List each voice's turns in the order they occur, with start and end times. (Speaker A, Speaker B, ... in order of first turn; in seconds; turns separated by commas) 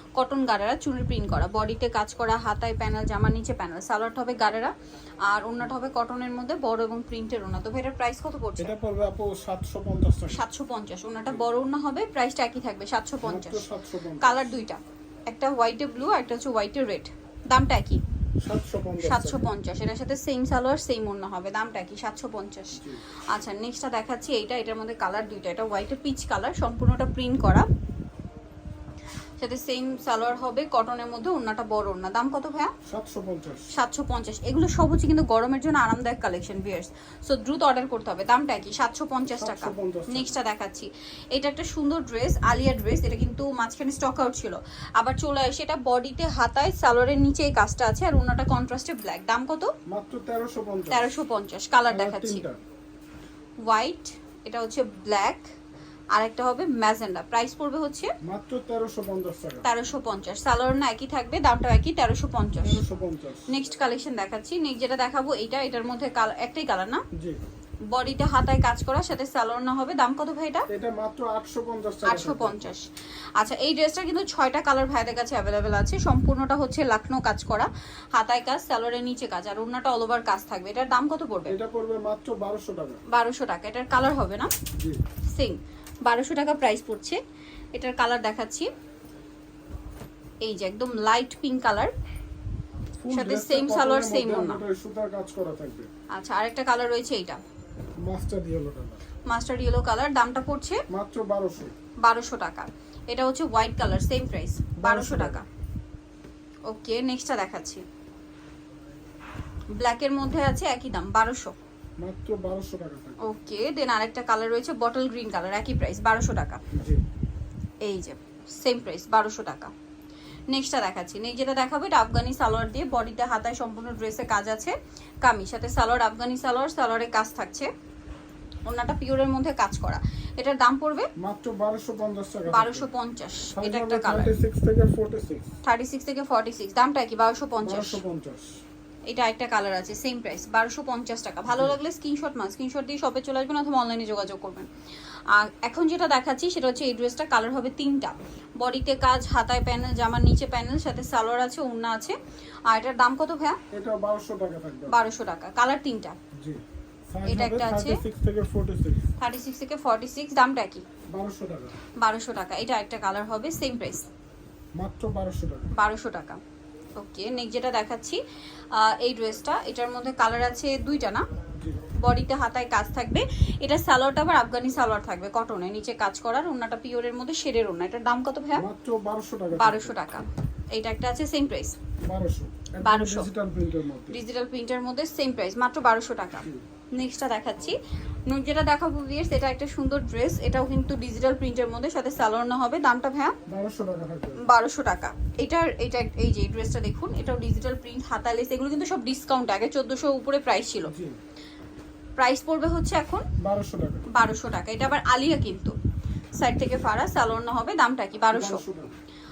Speaker A: 0.1-8.7, Speaker B: 8.6-10.4, Speaker A: 10.3-13.7, Speaker B: 13.2-14.5, Speaker A: 14.2-18.0, Speaker B: 18.4-19.5, Speaker A: 19.0-27.6, Speaker B: 22.7-23.0, Speaker A: 29.4-32.7, Speaker B: 32.8-33.7, Speaker A: 33.7-49.7, Speaker B: 39.3-40.4, Speaker B: 49.9-51.1, Speaker A: 50.9-52.4, Speaker B: 51.9-52.6, Speaker A: 53.6-55.5, Speaker A: 56.1-58.1, Speaker B: 58.2-59.7, Speaker A: 59.6-62.8, Speaker B: 62.6-63.5, Speaker A: 63.5-67.0, Speaker B: 67.2-67.4, Speaker A: 67.9-70.7, Speaker B: 70.7-72.7, Speaker A: 72.1-72.8, Speaker A: 73.4-81.5, Speaker B: 81.5-83.0, Speaker A: 83.1-84.5, Speaker A: 85.3-87.2, Speaker A: 87.7-88.7, Speaker A: 90.4-91.9, Speaker B: 93.0-95.9, Speaker A: 93.1-94.6, Speaker A: 96.1-97.4, Speaker B: 98.0-99.0, Speaker A: 99.3-100.8, Speaker B: 100.9-101.7, Speaker A: 102.0-105.5, Speaker B: 104.8-105.4, Speaker A: 106.7-107.8, Speaker A: 109.7-111.5, Speaker B: 112.0-113.3, Speaker A: 113.2-116.6, Speaker B: 116.7-117.0, Speaker A: 117.8-119.7, Speaker A: 120.5-127.7, Speaker A: 128.7-131.1, Speaker B: 131.2-132.9, Speaker A: 132.5-134.3, Speaker B: 133.5-135.5, Speaker A: 135.6-138.0, Speaker B: 137.6-138.6, Speaker A: 139.1-144.7, Speaker A: 145.3-152.2, Speaker A: 152.7-153.6, Speaker B: 153.7-155.0, Speaker A: 154.9-156.2, Speaker B: 156.3-159.1, Speaker A: 157.2-158.0, Speaker A: 159.2-160.8, Speaker B: 161.1-161.8, Speaker A: 162.0-164.1, Speaker B: 164.8-165.7, Speaker A: 165.7-166.4, Speaker A: 166.9-168.2, Speaker A: 168.7-171.2, Speaker A: 172.0-178.6, Speaker B: 178.5-180.0, Speaker A: 179.5-181.8, Speaker B: 182.0-184.2, Speaker A: 182.8-183.3, Speaker A: 184.1-193.3, Speaker B: 193.5-194.4, Speaker A: 194.4-200.9, Speaker B: 200.8-201.2, Speaker A: 202.2-203.2, Speaker B: 203.4-204.1, Speaker A: 204.1-205.8, Speaker A: 206.4-208.6, Speaker B: 208.3-208.9